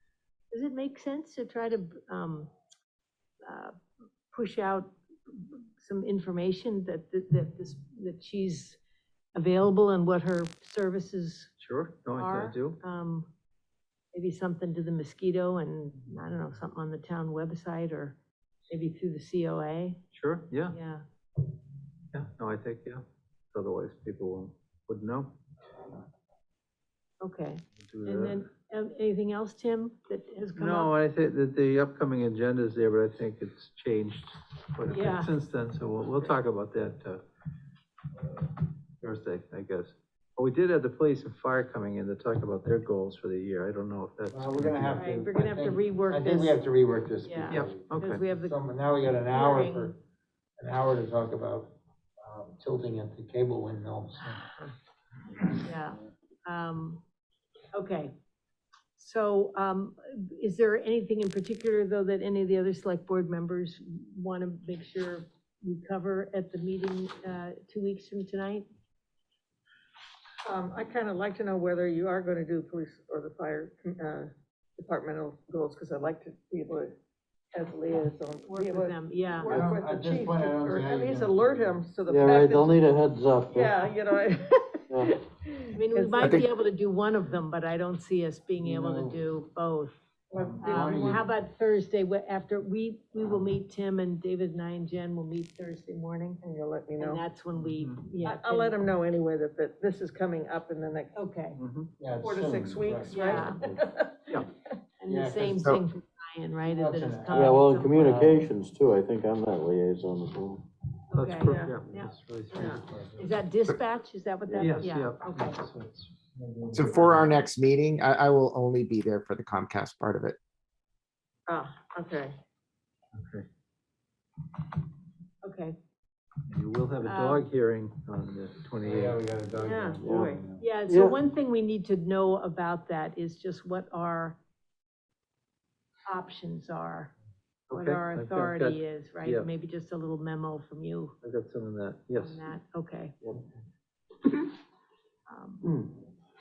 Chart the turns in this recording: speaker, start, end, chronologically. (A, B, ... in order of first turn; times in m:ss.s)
0:00.5-0:02.5 A
0:03.4-0:03.7 A
0:04.3-0:08.8 A
0:09.3-0:11.5 A
0:11.6-0:12.8 B
0:12.1-0:13.3 A
0:14.1-0:18.2 A
0:18.7-0:20.0 A
0:20.1-0:20.8 B
0:20.7-0:21.0 A
0:22.1-0:25.3 B
0:27.2-0:30.9 A
0:27.8-0:28.4 B
0:30.6-0:37.2 B
0:34.9-0:35.3 A
0:38.2-0:45.0 B
0:44.3-0:50.0 C
0:44.9-0:46.7 A
0:47.2-0:48.6 A
0:47.5-0:48.2 B
0:49.2-0:49.9 A
0:50.6-0:54.5 C
0:54.3-0:54.7 A
0:55.4-0:57.0 A
0:57.7-0:58.1 A
0:59.0-1:08.7 A
1:10.4-1:16.9 D
1:17.5-1:22.8 D
1:18.5-1:19.6 A
1:19.5-1:21.8 C
1:22.0-1:23.8 E
1:23.5-1:26.4 D
1:25.7-1:29.9 A
1:28.6-1:29.4 C
1:30.3-1:31.2 D
1:30.3-1:31.2 C
1:30.6-1:36.4 A
1:36.4-1:37.2 D
1:37.0-1:38.8 A
1:37.6-1:38.0 B
1:38.2-1:41.2 D
1:41.1-1:41.6 A
1:41.6-1:41.9 B
1:42.0-1:43.3 C
1:42.2-1:44.4 D
1:43.1-1:43.6 A
1:45.0-1:48.0 A
1:45.1-1:45.6 C
1:46.6-1:48.4 C
1:47.3-1:50.6 E
1:51.1-1:55.6 A
1:51.1-1:53.3 B
1:51.4-1:51.8 D
1:52.5-1:52.8 D
1:54.5-1:54.8 E
1:54.6-1:56.2 B
1:56.4-1:57.1 C
1:56.7-1:57.2 B
1:56.7-2:00.4 F
2:01.5-2:02.4 D
2:03.1-2:03.4 B
2:05.4-2:05.8 A
2:06.5-2:09.2 B
2:07.0-2:07.4 A
2:08.8-2:10.7 C
2:09.6-2:10.5 D
2:10.0-2:10.3 E
2:10.6-2:14.4 A
2:10.8-2:11.2 E
2:16.0-2:17.1 A
2:17.7-2:19.5 B
2:17.7-2:21.2 A
2:21.2-2:22.4 B
2:22.2-2:23.2 A
2:25.3-2:25.7 A
2:25.6-2:26.0 E